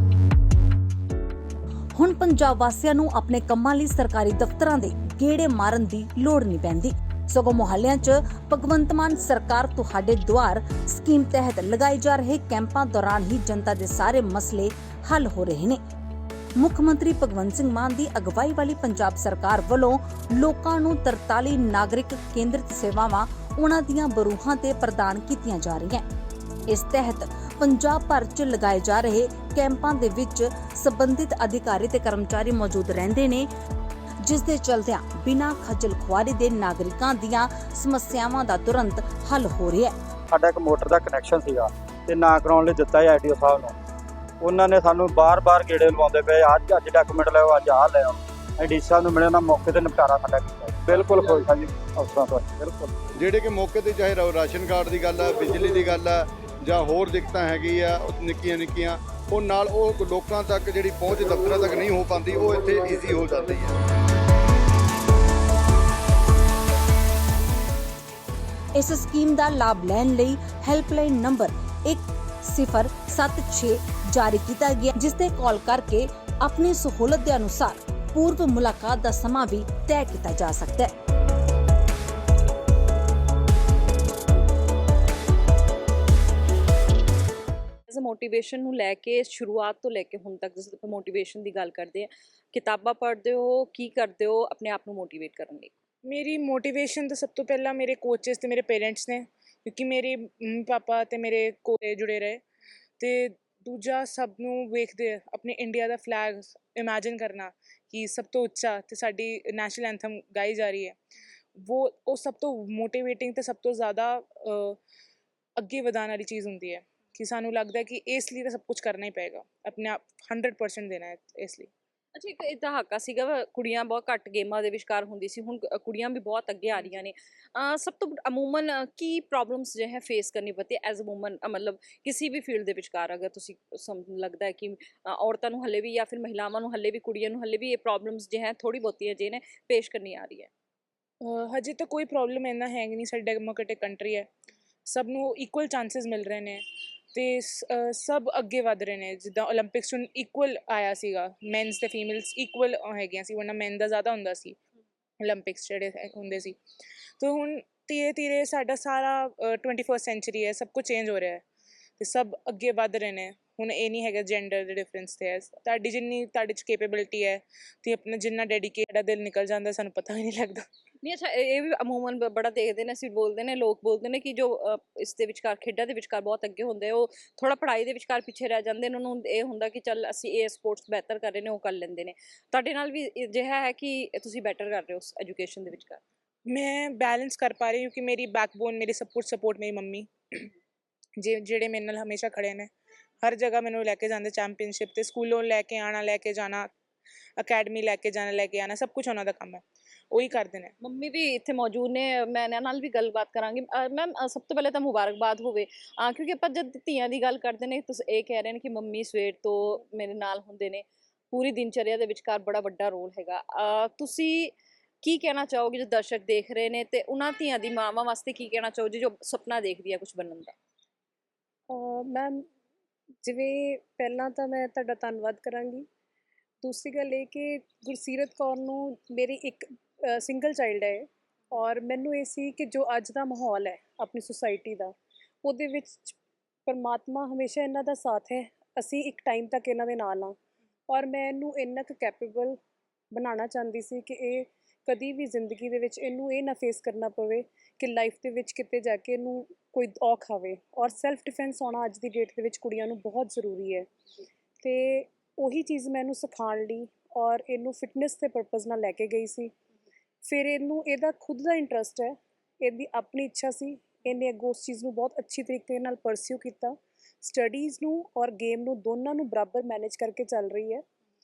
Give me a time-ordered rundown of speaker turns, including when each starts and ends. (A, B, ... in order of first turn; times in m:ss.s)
0:02.0-0:15.8 A
0:16.6-0:26.1 A
0:26.7-0:33.5 A
0:34.2-0:40.0 A
0:40.3-0:43.7 B
0:44.4-0:53.0 B
0:53.2-1:03.8 C
1:08.8-1:20.9 A
1:27.9-1:35.7 D
1:36.1-1:42.4 E
1:43.0-1:51.0 E
1:51.6-1:54.8 E
1:55.6-2:01.7 E
2:02.2-2:20.5 D
2:21.2-2:24.3 E
2:24.9-2:34.6 E
2:35.2-2:36.6 E
2:37.2-2:41.4 E
2:42.0-2:50.7 E
2:51.0-3:06.0 D
3:06.5-3:10.5 E
3:11.2-3:12.7 E
3:13.2-3:16.7 E
3:17.4-3:20.7 E
3:20.8-3:40.5 D
3:41.7-3:42.4 F
3:43.2-3:45.9 F
3:46.6-3:54.9 F
3:55.4-3:56.2 F
3:56.7-4:00.4 F
4:00.9-4:02.6 F
4:03.1-4:13.9 F
4:14.6-4:19.5 F
4:20.2-4:30.8 F